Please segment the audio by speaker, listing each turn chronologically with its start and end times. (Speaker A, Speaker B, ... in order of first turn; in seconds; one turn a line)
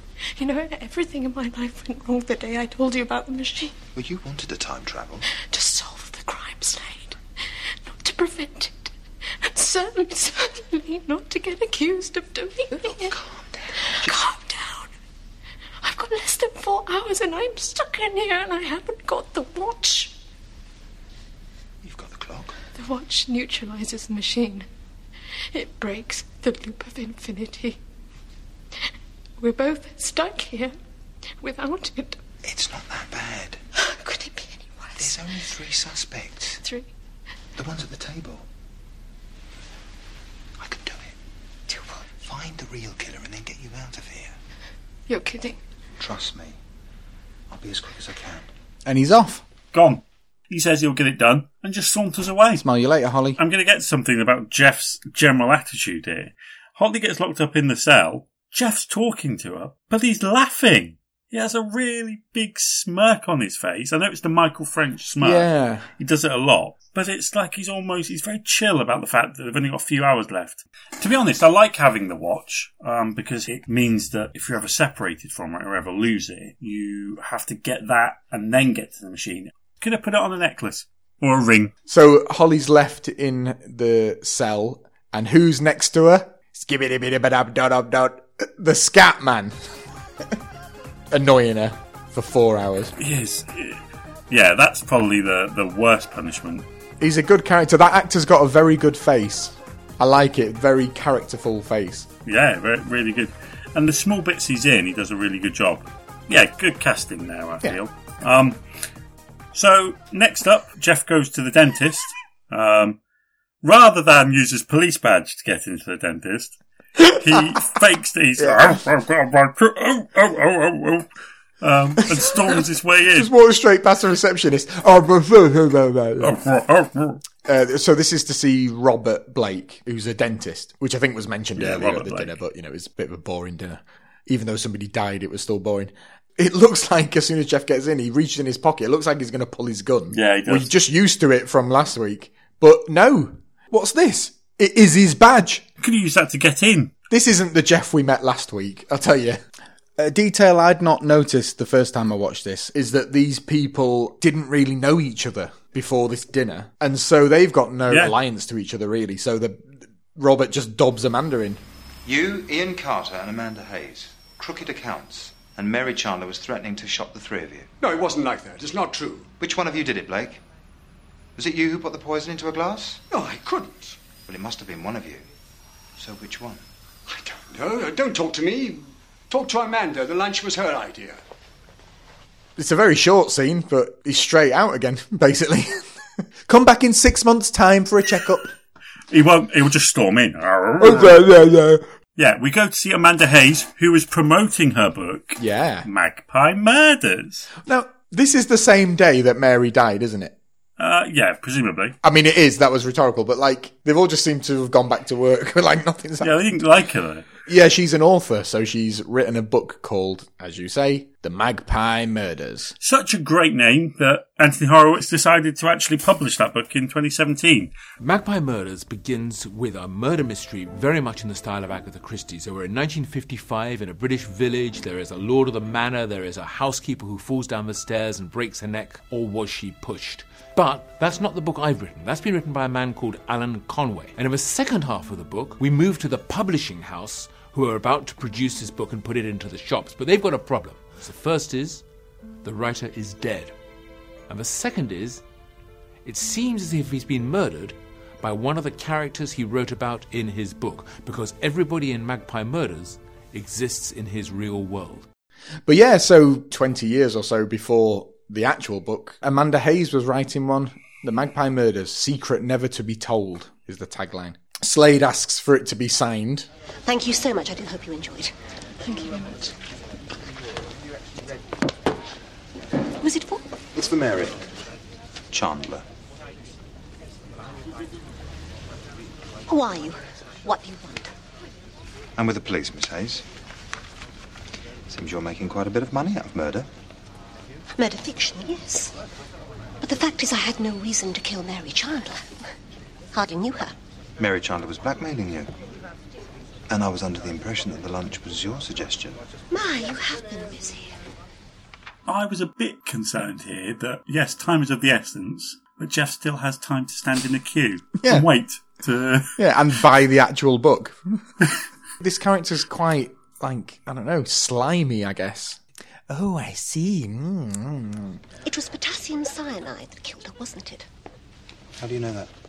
Speaker A: 0.3-3.7
Speaker B: 3.9-5.2
Speaker A: 5.3-7.2
Speaker A: 7.9-13.1
Speaker B: 12.8-14.3
Speaker A: 13.8-14.9
Speaker A: 15.8-20.1
Speaker B: 21.8-22.6
Speaker A: 22.8-24.7
Speaker A: 25.5-27.8
Speaker A: 29.4-30.7
Speaker A: 31.4-32.2
Speaker B: 32.4-33.6
Speaker A: 33.8-35.4
Speaker B: 35.0-36.6
Speaker A: 36.6-36.9
Speaker B: 37.5-38.5
Speaker B: 40.6-41.1
Speaker B: 42.2-44.4
Speaker A: 45.1-45.6
Speaker B: 46.0-46.6
Speaker B: 47.5-48.5
Speaker C: 48.8-49.4
Speaker D: 49.7-52.6
Speaker C: 52.6-53.4
Speaker D: 53.4-81.7
Speaker C: 65.2-65.9
Speaker C: 81.9-89.6
Speaker C: 91.1-92.9
Speaker D: 93.0-96.7
Speaker C: 97.0-102.1
Speaker D: 102.3-108.6
Speaker D: 109.5-113.0
Speaker D: 113.6-116.6
Speaker D: 117.1-121.1
Speaker C: 118.4-118.8
Speaker D: 121.6-123.3
Speaker C: 123.1-126.4
Speaker D: 126.2-127.2
Speaker C: 127.4-145.6
Speaker D: 131.6-132.4
Speaker D: 140.1-140.7
Speaker D: 145.8-146.9
Speaker C: 147.1-149.4
Speaker C: 150.0-161.6
Speaker D: 157.9-158.1
Speaker B: 162.1-167.7
Speaker E: 167.8-169.3
Speaker B: 169.4-170.4
Speaker B: 171.4-173.0
Speaker E: 173.1-174.0
Speaker B: 174.3-175.3
Speaker B: 176.0-176.6
Speaker E: 177.1-181.2
Speaker C: 182.6-185.8
Speaker C: 186.4-188.5
Speaker D: 189.1-191.2
Speaker C: 190.8-191.8
Speaker D: 192.2-197.5
Speaker C: 195.4-195.9
Speaker C: 197.6-200.3
Speaker D: 200.8-201.9
Speaker C: 202.0-206.6
Speaker D: 206.2-207.3
Speaker C: 207.4-212.7
Speaker D: 212.8-217.7
Speaker F: 218.0-241.8
Speaker F: 242.4-243.6
Speaker F: 244.3-245.2
Speaker F: 246.1-255.1
Speaker C: 255.7-266.5
Speaker G: 266.9-268.3
Speaker A: 268.8-269.5
Speaker B: 273.7-274.4
Speaker B: 275.3-275.8
Speaker G: 279.5-281.1
Speaker B: 282.1-283.2
Speaker B: 284.9-286.7
Speaker G: 287.8-288.9
Speaker G: 289.8-292.3
Speaker G: 293.1-293.7
Speaker B: 294.2-295.5
Speaker B: 296.7-299.2
Speaker G: 299.5-301.0
Speaker D: 302.1-309.4
Speaker C: 308.0-308.3
Speaker C: 309.4-311.2
Speaker C: 312.0-318.2
Speaker G: 318.4-320.9
Speaker B: 321.8-322.3